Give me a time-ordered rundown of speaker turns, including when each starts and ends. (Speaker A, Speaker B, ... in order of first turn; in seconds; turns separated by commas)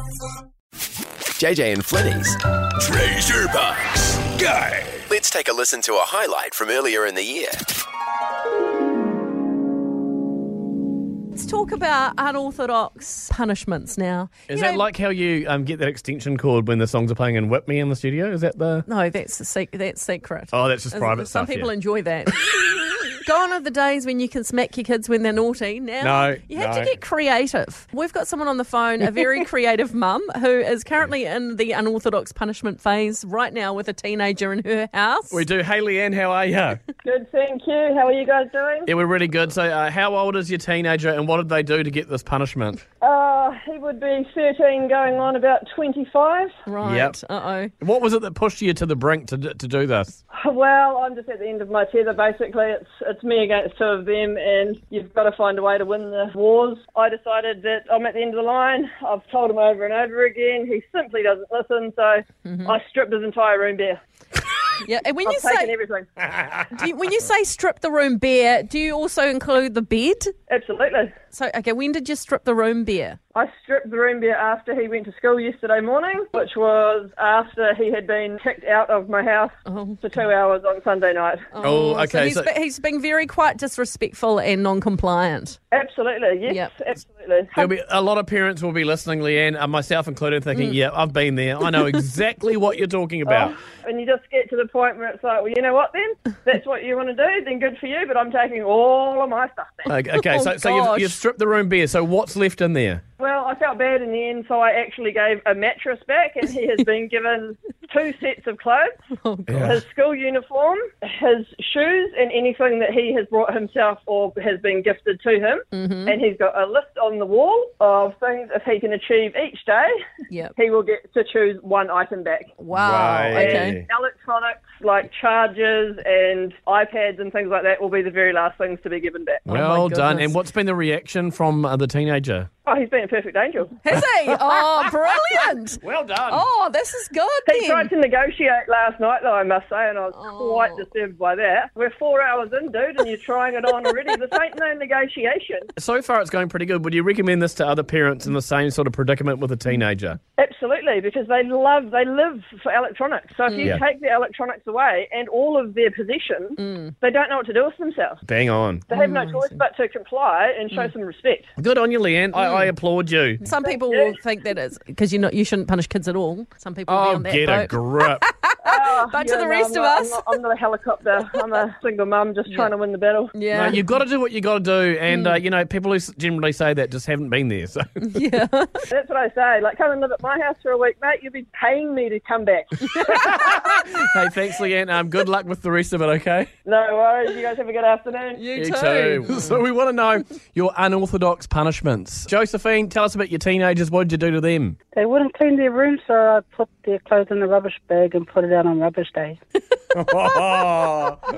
Speaker A: 1.4-7.6, Speaker B: 11.3-14.9, Speaker C: 14.5-18.9, Speaker B: 18.9-35.5, Speaker C: 20.5-21.7, Speaker C: 26.0-27.0, Speaker C: 35.3-36.8, Speaker D: 37.0-38.9, Speaker C: 38.9-42.8, Speaker D: 43.0-46.5, Speaker B: 46.6-47.7, Speaker C: 46.8-47.2, Speaker C: 47.8-50.2, Speaker D: 50.3-64.0, Speaker B: 62.4-62.7, Speaker B: 64.8-65.7, Speaker D: 65.2-66.6, Speaker B: 66.7-70.3, Speaker D: 70.5-71.1, Speaker B: 71.3-73.2, Speaker D: 73.3-81.5, Speaker B: 79.7-80.0, Speaker B: 81.5-85.6, Speaker C: 81.6-82.5, Speaker D: 85.7-87.8, Speaker C: 87.5-93.5, Speaker B: 90.5-90.8, Speaker B: 91.6-92.0, Speaker D: 93.2-100.0, Speaker C: 99.9-103.0, Speaker B: 100.0-101.2, Speaker D: 103.2-108.9, Speaker B: 109.2-109.7, Speaker D: 109.6-119.9, Speaker B: 115.7-116.2, Speaker D: 120.6-122.6, Speaker B: 122.6-123.8, Speaker C: 122.7-123.7, Speaker D: 123.3-129.5, Speaker B: 129.5-130.4, Speaker C: 129.5-132.5, Speaker D: 132.7-133.8, Speaker B: 133.8-137.9, Speaker C: 135.9-136.4, Speaker D: 137.5-145.7, Speaker B: 140.1-140.8, Speaker C: 145.8-150.2, Speaker D: 150.4-158.3, Speaker B: 153.5-153.8, Speaker B: 156.6-156.9, Speaker C: 158.5-158.8, Speaker D: 158.9-161.5, Speaker B: 158.9-159.6, Speaker C: 161.6-163.4, Speaker B: 162.3-162.7, Speaker B: 163.4-170.3, Speaker D: 163.6-164.1, Speaker C: 166.9-168.2, Speaker D: 168.6-173.3, Speaker B: 171.3-171.6, Speaker B: 172.5-172.7, Speaker B: 173.3-173.9, Speaker C: 173.5-177.8, Speaker B: 175.1-175.4, Speaker B: 178.0-178.8, Speaker D: 178.9-183.7, Speaker B: 182.8-183.3, Speaker C: 183.3-186.5, Speaker D: 186.6-188.4, Speaker B: 188.4-189.6, Speaker C: 188.6-194.7, Speaker E: 194.9-199.4, Speaker C: 200.1-201.2